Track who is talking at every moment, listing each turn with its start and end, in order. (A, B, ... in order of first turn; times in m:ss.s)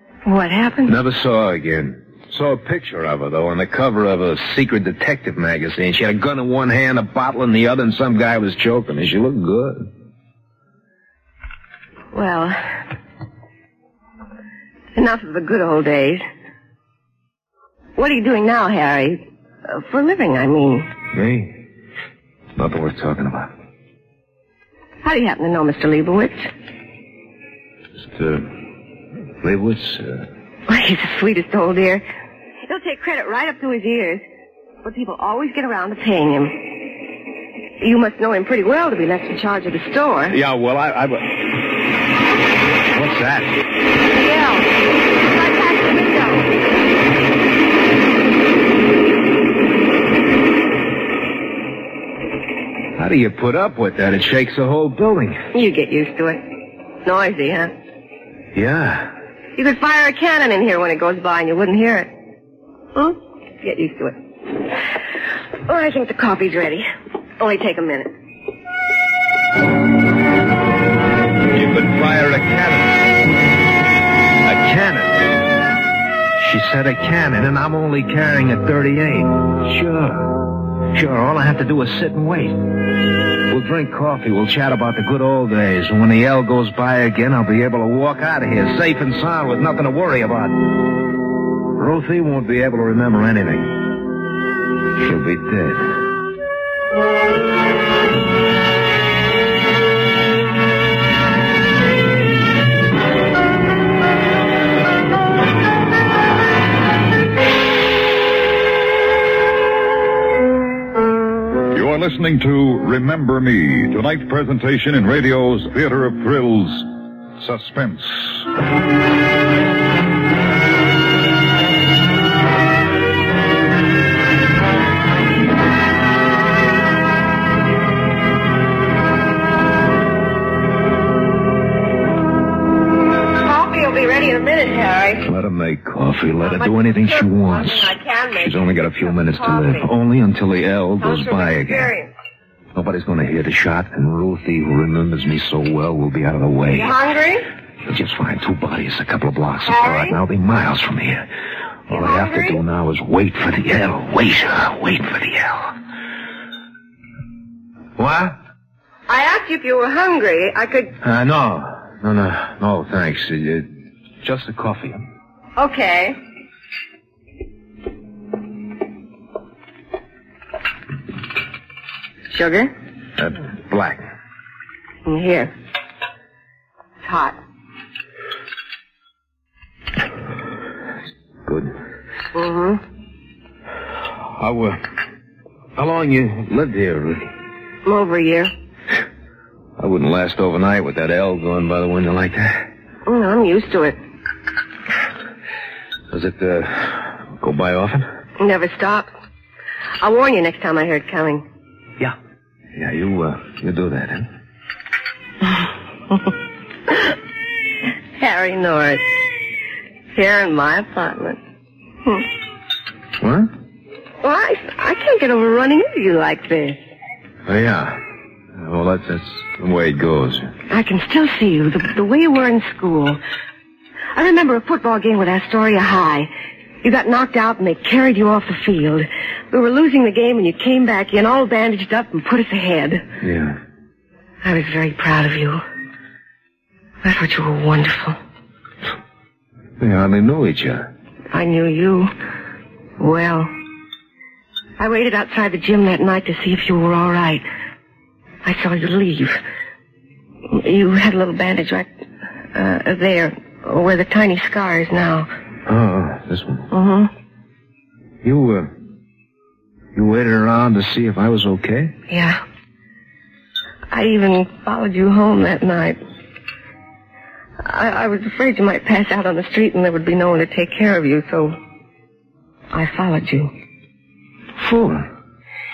0:00.2-0:01.0 A
0:00.8-0:09.9 B
0:12.1-0:12.6 A
0:14.9-0:16.2 A
0:18.0-0:20.9 A
0:21.1-0:21.6 B
0:22.6-0:23.5 B
0:25.0-0:26.5 A
0:28.0-0:28.5 B
0:29.4-0:30.3 B
0:30.7-0:32.0 A
0:32.7-0:34.2 A
0:34.8-0:36.6 A
0:37.8-0:40.4 A
0:40.3-0:41.5 B
0:42.9-0:43.6 B
0:44.1-0:46.5 A
0:53.0-0:55.4 B
0:55.5-0:56.4 A
0:57.0-0:57.7 A
0:58.5-0:59.1 B
0:59.6-1:02.1 A
1:02.9-1:04.2 A
1:05.7-1:06.9 A
1:07.4-1:08.1 A
1:11.5-1:13.2 B
1:14.4-1:15.3 B
1:16.4-1:20.4 B
1:20.9-1:22.6 B
1:23.5-1:30.8 B
1:31.7-1:33.9 B
1:35.0-1:35.9 B
1:51.7-1:58.4 C
2:13.4-2:15.3 A
2:15.2-2:21.9 B
2:16.4-2:18.5 A
2:19.1-2:19.9 A
2:21.0-2:22.1 A
2:22.7-2:27.0 B
2:26.7-2:27.4 A
2:27.8-2:31.3 B
2:29.7-2:30.2 A
2:31.9-2:35.8 B
2:31.9-2:32.6 A
2:38.0-2:38.4 B
2:39.1-2:41.0 A
2:41.0-2:43.7 B
2:44.2-2:45.1 B
2:45.6-2:46.2 A
2:52.3-2:52.7 A
2:53.2-2:54.0 B
2:55.0-2:55.5 A
2:57.0-2:57.4 A
3:01.4-3:01.7 B
3:02.3-3:02.8 A
3:04.1-3:04.8 B
3:05.8-3:07.3 B
3:07.8-3:08.5 A
3:09.8-3:12.7 B
3:13.0-3:14.0 A
3:16.1-3:18.0 B
3:18.4-3:19.1 A
3:20.0-3:21.4 A
3:22.7-3:24.3 B
3:26.9-3:27.1 A
3:28.2-3:29.0 A
3:30.1-3:31.4 A
3:33.2-3:33.5 B
3:34.2-3:36.8 A
3:37.4-3:38.0 B
3:38.6-3:40.5 B
3:40.7-3:43.2 A
3:44.1-3:46.3 A
3:46.8-3:53.0 A
3:53.2-3:53.6 B
3:54.4-3:55.6 A
3:57.0-3:58.2 A
3:59.8-4:00.9 B
4:01.3-4:02.1 A
4:03.0-4:03.5 A
4:04.8-4:07.4 A
4:08.4-4:09.4 A
4:10.5-4:11.9 A
4:12.5-4:15.3 A
4:15.6-4:16.7 B
4:16.7-4:17.1 A
4:18.2-4:18.7 B
4:19.9-4:21.9 B
4:22.1-4:22.4 A
4:23.9-4:26.0 A
4:27.6-4:31.5 A
4:32.7-4:33.5 A
4:34.6-4:35.1 B